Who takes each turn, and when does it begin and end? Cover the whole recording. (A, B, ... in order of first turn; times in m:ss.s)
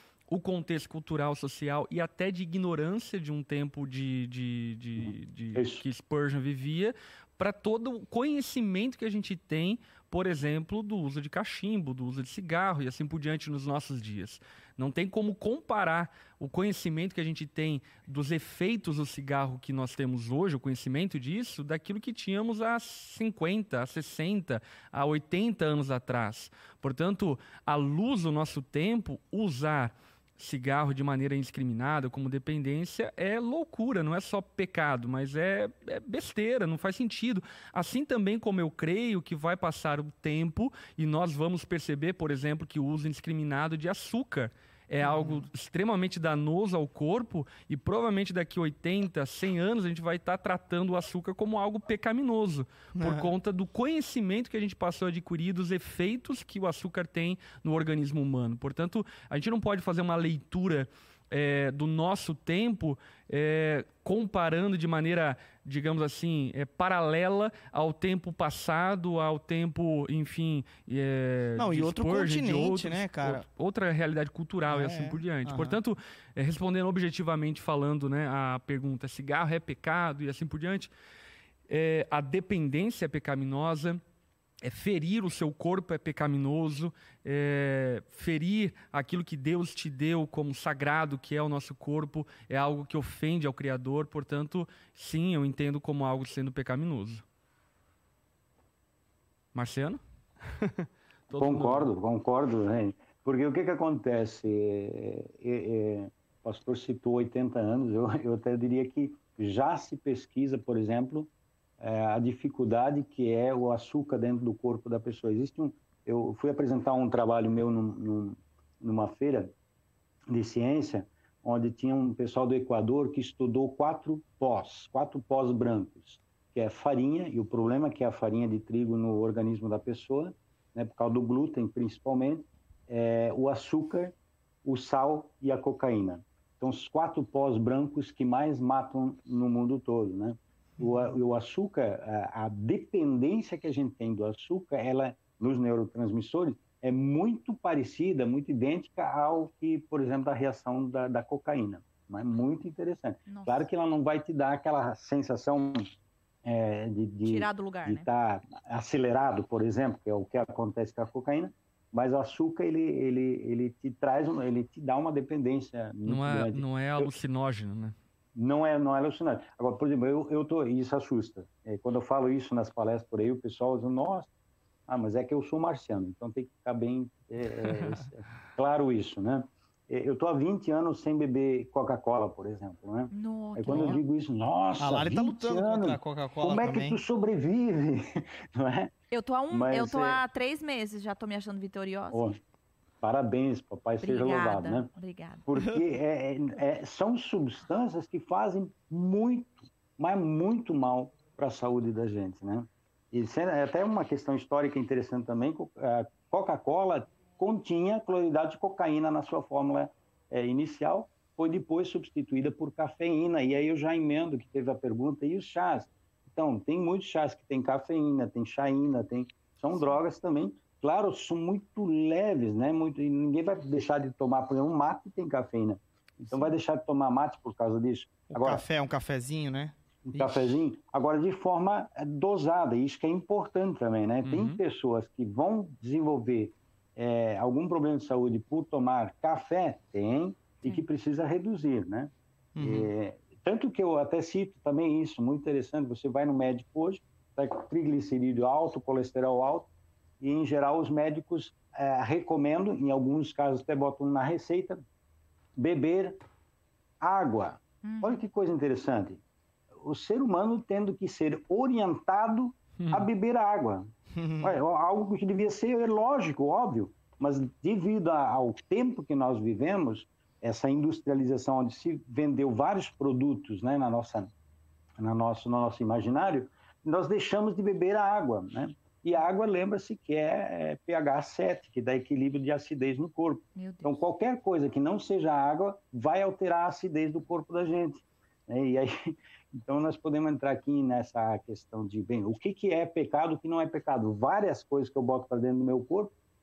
0:00.3-1:20.9 A
0:05.0-0:05.8 B
0:45.0-0:45.5 C
0:53.0-0:53.3 C
1:11.6-1:13.4 C
1:14.7-1:15.8 C
1:21.7-1:24.0 A
1:24.6-1:37.2 A
1:39.5-1:41.9 A
1:41.4-1:59.5 B
2:00.3-2:35.8 B
2:33.3-2:33.7 D
2:36.4-2:47.1 B
2:37.2-2:38.1 D
2:46.0-2:47.9 A
2:48.3-2:54.3 B
2:54.9-3:08.9 B
3:03.1-3:04.0 D
3:04.8-3:07.0 C
3:09.1-3:12.2 D
3:09.5-3:10.2 B
3:12.1-3:12.4 B
3:13.0-3:14.9 B
3:14.0-3:15.4 D
3:15.5-3:48.6 B
3:48.3-3:50.6 C
3:50.0-4:09.7 B
3:54.2-3:54.6 A
4:02.5-4:02.9 C
4:10.2-4:14.8 B
4:15.6-4:16.2 B
4:17.0-4:19.2 B
4:17.8-4:18.2 D
4:19.8-4:34.3 B
4:22.8-4:23.0 A
4:24.1-4:24.6 C
4:35.0-4:56.1 B
4:43.5-4:44.0 D